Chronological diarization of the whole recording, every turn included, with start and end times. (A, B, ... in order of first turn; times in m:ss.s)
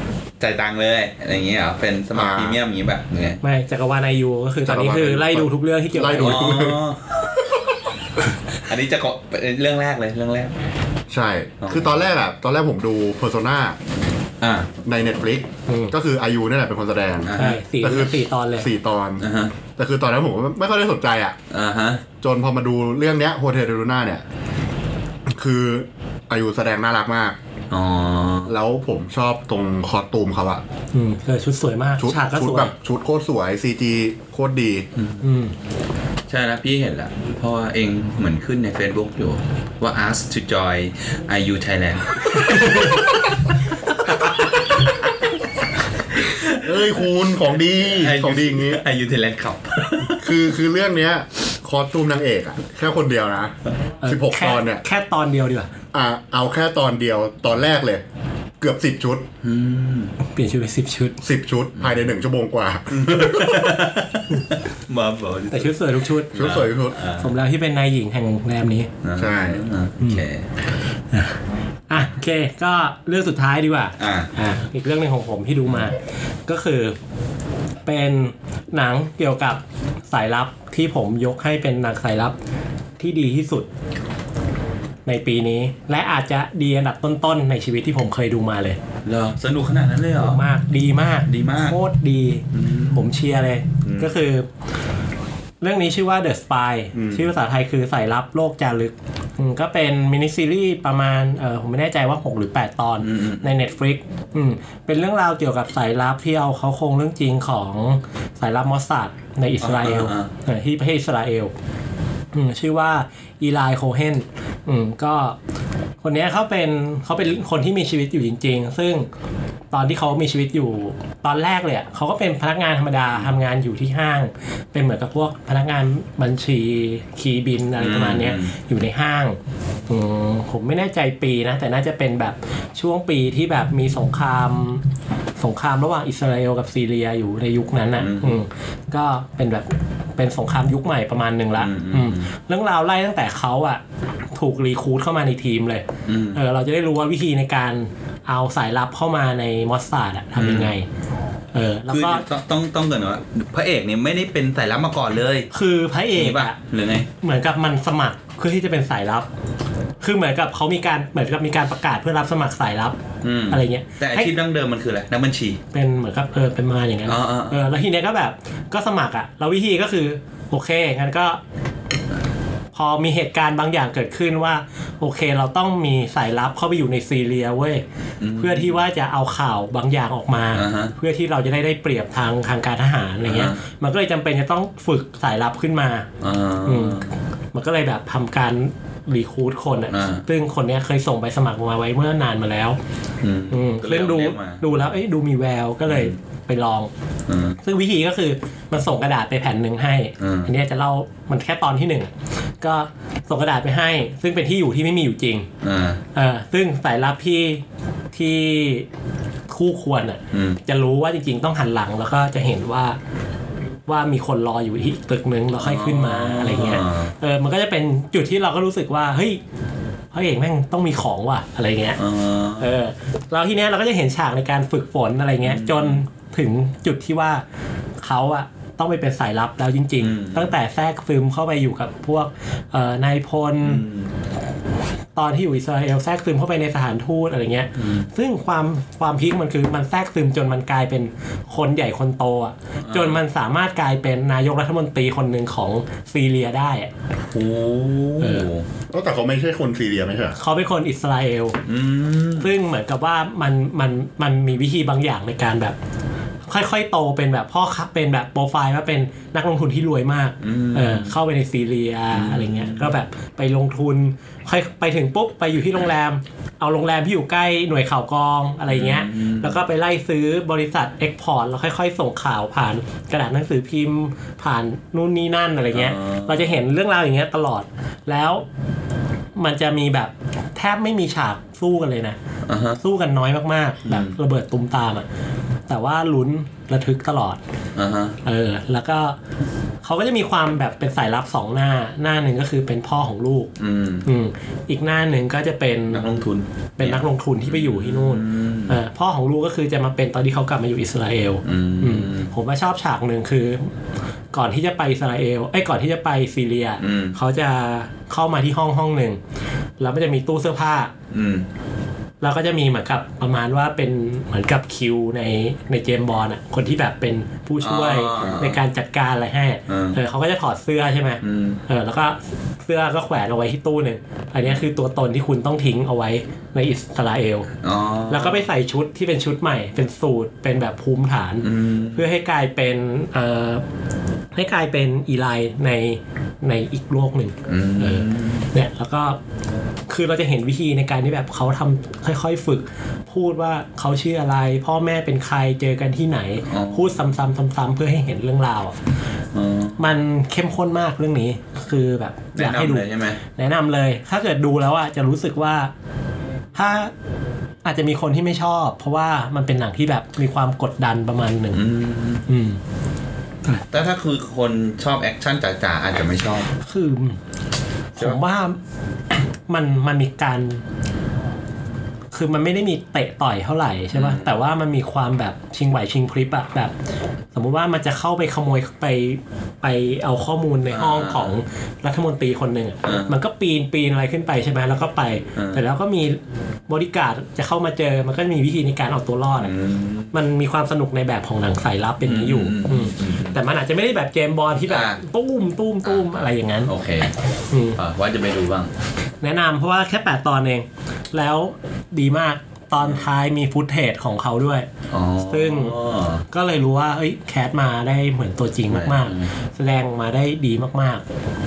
0:00.4-0:03.4 A
0:02.1-0:02.6 B
0:03.4-0:06.7 C
0:04.6-0:06.8 B
0:06.2-0:07.0 A
0:08.7-0:10.5 A
0:11.1-0:13.8 B
0:11.6-0:12.0 A
0:14.4-0:14.7 A
0:14.8-0:21.4 B
0:15.7-0:15.9 C
0:17.2-0:17.6 A
0:17.4-0:18.7 C
0:19.2-0:19.5 A
0:21.5-0:22.0 A
0:22.2-0:24.2 B
0:25.3-0:27.4 B
0:27.7-0:28.5 A
0:28.4-0:30.6 B
0:30.9-0:32.7 C
0:32.0-0:34.9 B
0:35.0-0:35.2 A
0:35.2-0:35.5 C
0:36.3-0:43.3 A
0:42.5-0:43.0 C
0:44.1-0:45.1 A
0:46.3-0:46.9 A
0:46.6-0:48.8 B
0:47.8-0:50.3 A
0:50.2-0:53.5 B
0:54.0-0:55.7 C
0:54.0-0:54.8 B
0:55.9-0:58.0 B
0:58.6-0:59.3 B
0:59.4-1:00.2 A
1:00.3-1:01.2 C
1:01.2-1:03.8 B
1:02.9-1:07.3 A
1:05.5-1:06.3 C
1:06.3-1:07.0 B
1:07.2-1:08.9 C
1:09.0-1:10.4 A
1:09.2-1:09.7 B
1:11.1-1:11.4 C
1:11.9-1:17.0 C
1:14.0-1:14.3 A
1:17.8-1:22.3 C
1:23.0-1:23.7 C
1:25.0-1:28.8 C
1:29.0-1:30.4 A
1:30.2-1:34.5 C
1:31.3-1:31.8 A
1:32.5-1:33.0 A
1:33.8-1:34.1 A
1:35.6-1:51.5 C
1:43.0-1:43.5 A
1:49.6-1:50.3 A
1:52.3-1:55.4 C
1:56.0-1:59.1 C
1:59.7-2:14.8 C
2:07.8-2:08.5 A
2:15.4-2:23.8 C
2:18.0-2:18.4 A
2:21.6-2:22.3 A
2:24.3-2:30.8 C
2:26.1-2:26.4 A
2:30.4-2:30.7 A
2:31.5-2:32.2 C
2:31.9-2:35.5 A
2:35.5-2:36.6 C
2:36.1-2:37.1 A
2:37.2-2:39.3 C
2:40.0-2:43.0 C
2:43.2-2:45.6 A
2:43.5-2:44.3 C
2:45.7-2:51.4 C
2:47.1-2:47.6 A
2:52.7-2:57.8 C
2:58.2-2:58.8 A
2:58.4-3:06.1 C
3:00.5-3:00.9 A
3:03.2-3:03.6 A
3:06.2-3:07.1 A
3:06.6-3:12.8 C
3:09.9-3:10.2 A
3:13.2-3:14.6 A
3:13.5-3:16.9 C
3:15.9-3:16.1 A
3:17.3-3:17.6 A
3:17.6-3:25.5 C
3:20.2-3:20.5 A
3:25.6-3:26.0 A
3:26.1-3:28.8 C
3:29.5-3:33.0 C
3:30.3-3:30.6 A
3:33.9-3:39.4 C
3:35.6-3:37.1 A
3:40.1-3:42.0 C
3:42.0-3:42.7 A
3:42.6-3:47.4 C
3:45.4-3:46.0 A
3:48.0-3:53.8 C
3:50.0-3:50.5 A
3:53.6-3:54.1 A
3:55.2-4:06.9 C
3:57.8-3:58.0 A
4:02.8-4:03.2 A
4:07.3-4:08.6 A
4:08.2-4:08.5 C
4:08.9-4:10.3 B
4:10.4-4:11.6 C
4:11.7-4:12.5 A
4:12.4-4:15.8 C
4:16.5-4:38.4 C
4:20.4-4:21.1 A
4:22.1-4:22.9 A
4:28.7-4:29.6 A
4:35.7-4:36.4 A
4:39.4-4:42.2 C
4:42.4-4:42.8 A
4:42.8-4:45.0 C
4:43.8-4:44.2 A
4:45.7-4:47.4 C
4:47.8-4:48.2 A
4:48.2-4:49.2 C
4:49.8-4:53.5 C
4:53.6-4:54.0 A
4:54.0-4:56.2 C
4:55.9-4:58.8 A
4:56.8-5:03.7 C
5:01.4-5:02.3 A
5:04.3-5:09.2 C
5:06.8-5:07.2 A
5:09.8-5:10.9 C
5:11.1-5:11.4 A
5:12.2-5:27.5 C
5:17.6-5:18.6 A
5:19.7-5:20.0 A
5:21.2-5:21.6 A
5:27.6-5:28.4 A
5:28.1-5:33.6 C
5:31.4-5:32.0 A
5:34.3-5:39.2 C
5:37.5-5:38.5 A
5:39.9-5:48.8 C
5:46.5-5:47.0 A
5:49.3-5:49.8 A
5:49.8-5:55.7 C
5:52.4-5:53.2 A
5:56.5-5:56.9 C
5:57.6-6:01.6 C
6:01.5-6:02.3 A
6:02.3-6:02.6 C
6:03.7-6:06.5 A
6:06.6-6:07.2 C
6:08.0-6:08.6 C
6:09.5-6:10.6 C
6:12.1-6:16.7 C
6:13.9-6:14.3 A
6:17.3-6:29.5 C
6:20.7-6:21.4 A
6:22.8-6:23.1 A
6:25.4-6:25.6 A
6:29.4-6:30.1 A
6:30.1-6:36.7 C
6:32.0-6:33.4 A
6:34.7-6:35.0 A
6:35.8-6:36.1 A
6:36.6-6:37.1 A
6:37.5-6:37.8 C
6:37.8-6:38.7 A
6:39.2-6:44.7 C
6:44.9-6:46.2 A
6:45.2-6:45.7 C
6:46.3-6:51.0 C
6:48.7-6:49.3 A